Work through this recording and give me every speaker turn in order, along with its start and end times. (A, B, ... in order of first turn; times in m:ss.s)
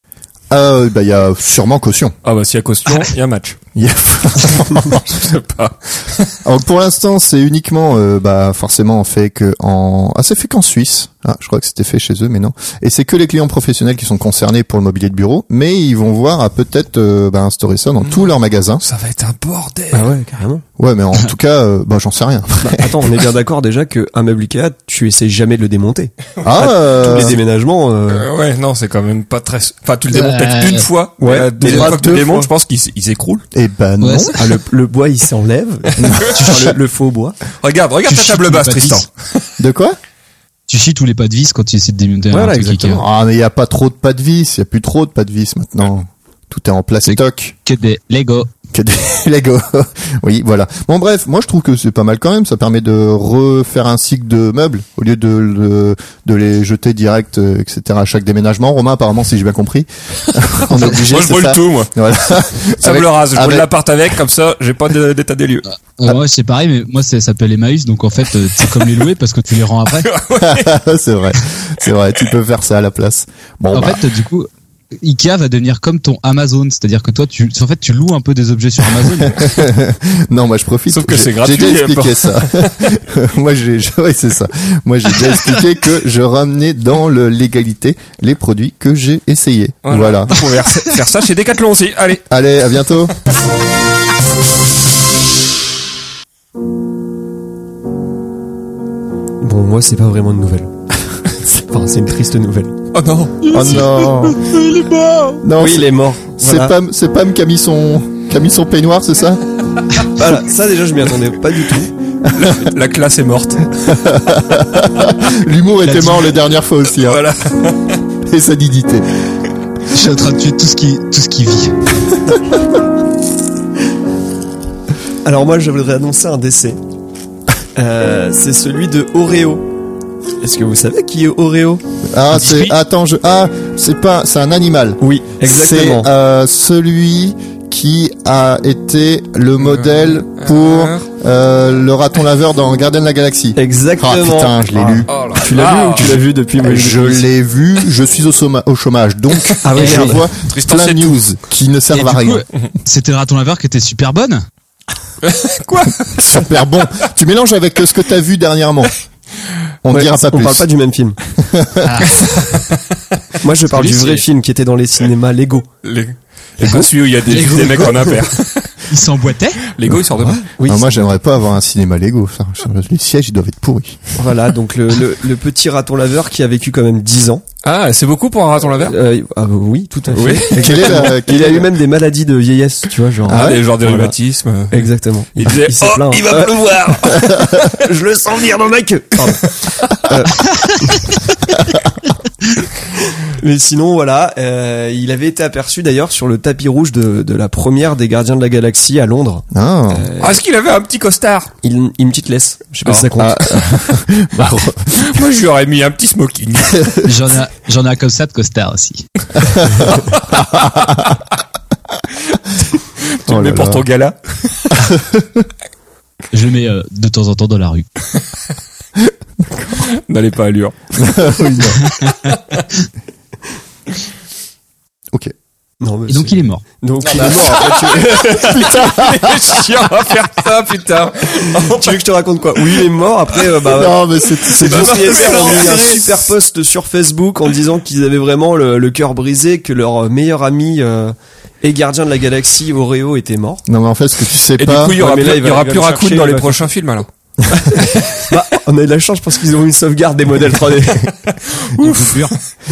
0:00.5-0:02.1 A
0:02.2-0:03.6 B
0:03.8-0:05.1 A
0:04.5-0:06.4 B
0:06.4-0:18.8 A
0:18.0-0:20.2 B
0:19.9-0:20.6 C
0:20.8-0:23.1 A
0:22.6-0:28.3 C
0:26.4-0:27.4 A
0:28.1-0:33.4 B
0:30.1-0:30.9 D
0:31.2-0:32.5 C
0:31.7-0:32.2 A
0:33.5-0:34.5 A
0:34.0-0:34.4 D
0:34.4-0:37.4 C
0:36.0-0:36.8 A
0:36.0-0:36.7 B
0:37.6-0:39.1 B
0:38.0-0:39.1 D
0:39.6-0:40.0 A
0:40.7-0:43.0 D
0:42.3-0:43.0 C
0:43.0-0:47.6 A
0:47.0-0:48.5 D
0:48.7-1:03.7 A
1:00.6-1:05.6 B
1:06.0-1:10.1 D
1:09.9-1:10.8 B
1:10.4-1:14.0 A
1:13.7-1:19.4 D
1:19.2-1:30.4 A
1:20.9-1:22.9 B
1:29.8-1:32.3 B
1:32.3-1:33.1 A
1:39.4-1:40.7 C
1:41.3-1:42.8 C
1:42.9-1:45.0 B
1:43.5-1:44.4 A
1:45.4-1:49.4 A
1:45.6-1:46.8 C
1:50.1-1:51.9 C
1:52.3-1:53.9 B
1:53.9-1:57.2 A
1:55.8-1:56.4 D
1:57.0-1:58.0 B
1:58.2-1:59.1 A
1:59.9-2:01.8 D
2:05.2-2:06.8 C
2:07.8-2:09.7 C
2:10.4-2:11.8 C
2:12.1-2:25.1 A
2:12.3-2:12.8 D
2:15.0-2:16.1 C
2:19.6-2:21.1 B
2:23.6-2:27.3 C
2:25.1-2:26.9 B
2:26.6-2:32.4 A
2:29.4-2:31.2 B
2:29.6-2:30.3 C
2:29.8-2:30.2 D
2:31.9-2:34.4 D
2:35.2-2:36.6 B
2:36.1-2:39.0 A
2:39.8-2:40.7 A
2:39.9-2:41.2 C
2:41.4-2:42.2 A
2:41.8-2:42.3 D
2:42.5-2:42.8 B
2:43.4-2:45.7 C
2:43.7-2:44.2 D
2:43.8-2:44.1 B
2:45.8-2:48.9 B
2:46.6-2:48.2 C
2:47.3-2:48.1 D
2:48.9-2:49.6 D
2:49.7-2:50.5 B
2:50.6-2:51.1 C
2:50.7-2:54.0 A
2:54.2-2:57.4 C
2:57.6-2:59.0 B
2:58.8-3:04.2 C
3:00.1-3:01.1 B
3:00.5-3:01.7 A
3:03.2-3:07.7 B
3:03.3-3:03.6 A
3:04.7-3:11.2 C
3:13.2-3:20.4 C
3:19.5-3:20.1 A
3:20.2-3:21.5 B
3:21.6-3:23.6 C
3:22.8-3:24.0 B
3:23.2-3:25.2 A
3:24.9-3:27.0 B
3:27.0-3:29.1 D
3:29.5-3:31.2 A
3:29.9-3:30.3 B
3:33.0-3:34.8 B
3:33.3-3:33.8 A
3:34.9-3:35.4 A
3:36.3-3:37.9 D
3:39.5-3:39.8 A
3:39.7-3:41.5 B
3:41.0-3:41.8 A
3:41.8-3:42.2 D
3:45.8-3:49.0 C
3:46.1-3:46.6 D
3:47.0-3:47.7 A
3:47.1-3:52.9 B
3:48.3-3:49.6 A
3:51.5-4:03.6 C
3:53.7-3:55.4 A
3:54.5-3:56.3 B
4:03.7-4:05.0 A
4:04.6-4:07.1 B
4:04.9-4:06.7 C
4:07.5-4:11.4 C
4:07.8-4:08.2 B
4:11.6-4:12.3 B
4:11.8-4:12.4 D